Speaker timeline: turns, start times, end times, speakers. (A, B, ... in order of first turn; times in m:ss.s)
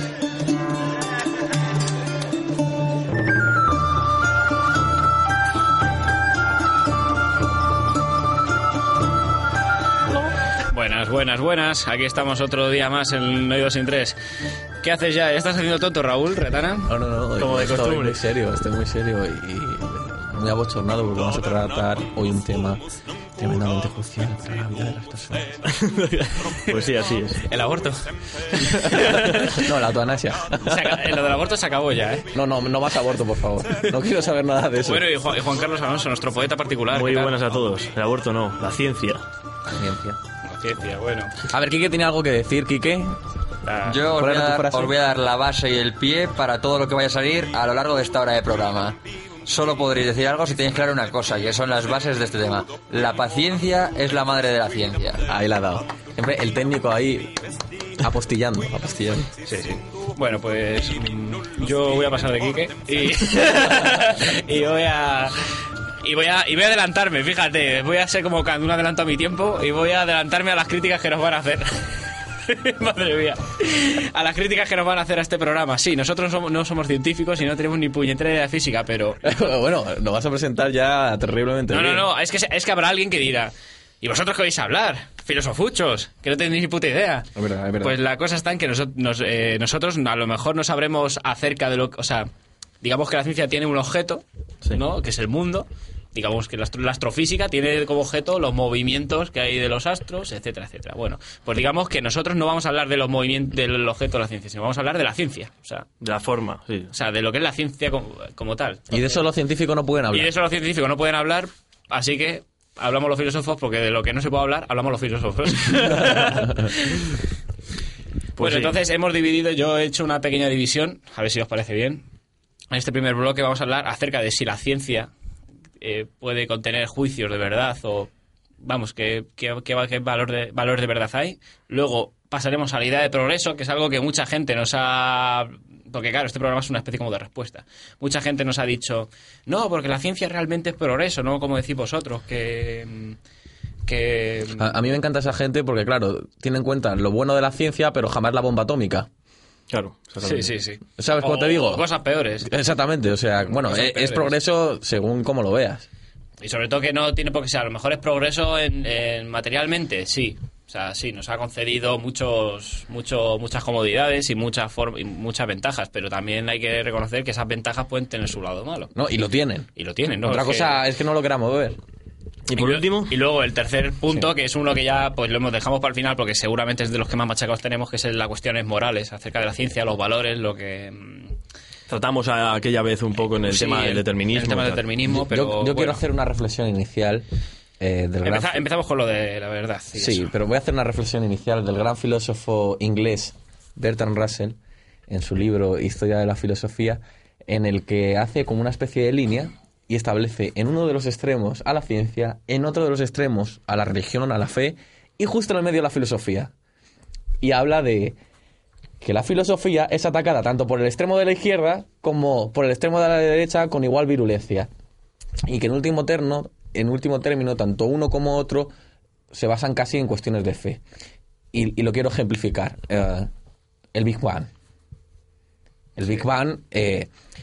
0:10.7-0:14.2 A
0:14.8-0:16.9 A
0:16.9-0:22.8 B
0:17.4-0:18.2 C
0:23.4-0:25.5 B
0:25.7-0:27.4 C
0:27.5-0:29.6 A
0:29.4-0:31.0 B
0:30.6-0:32.3 A
0:32.3-0:35.0 B
0:34.8-0:37.6 A
0:36.9-0:39.2 C
0:39.7-0:40.2 B
0:40.4-0:41.3 A
0:41.5-0:43.2 B
0:43.6-0:44.0 A
0:43.8-0:55.8 D
0:44.1-0:44.9 B
0:56.1-0:57.4 B
0:58.0-0:59.3 B
0:59.4-1:05.5 A
1:06.0-1:11.9 A
1:12.4-1:19.2 A
1:19.2-1:22.1 B
1:21.7-1:27.3 A
1:27.4-1:28.0 B
1:27.8-1:32.3 A
1:32.8-1:45.8 A
1:46.0-1:46.9 C
1:46.9-1:49.2 A
1:48.9-1:50.3 B
1:50.1-1:57.1 A
1:58.4-1:58.7 C
1:58.4-2:02.0 A
2:02.7-2:05.1 A
2:05.8-2:08.1 A
2:08.6-2:23.2 A
2:23.8-2:24.7 A
2:24.6-2:29.1 B
2:29.7-2:30.5 C
2:30.2-2:32.5 A
2:31.0-2:31.8 B
2:32.4-2:35.9 B
2:33.5-2:34.3 A
2:36.4-2:48.9 A
2:48.9-2:49.7 B
2:49.8-2:50.8 A
2:50.2-2:51.8 B
2:52.5-2:53.1 C
2:52.6-3:01.4 A
3:01.9-3:04.8 C
3:03.5-3:06.0 A
3:05.1-3:07.3 B
3:07.8-3:08.6 B
3:08.2-3:10.3 A
3:09.9-3:14.6 B
3:15.1-3:26.5 B
3:27.4-3:28.2 B
3:29.0-3:34.7 B
3:35.5-3:38.7 B
3:39.3-3:40.8 B
3:41.5-3:43.3 B
3:43.9-3:44.5 B
3:46.0-3:47.1 B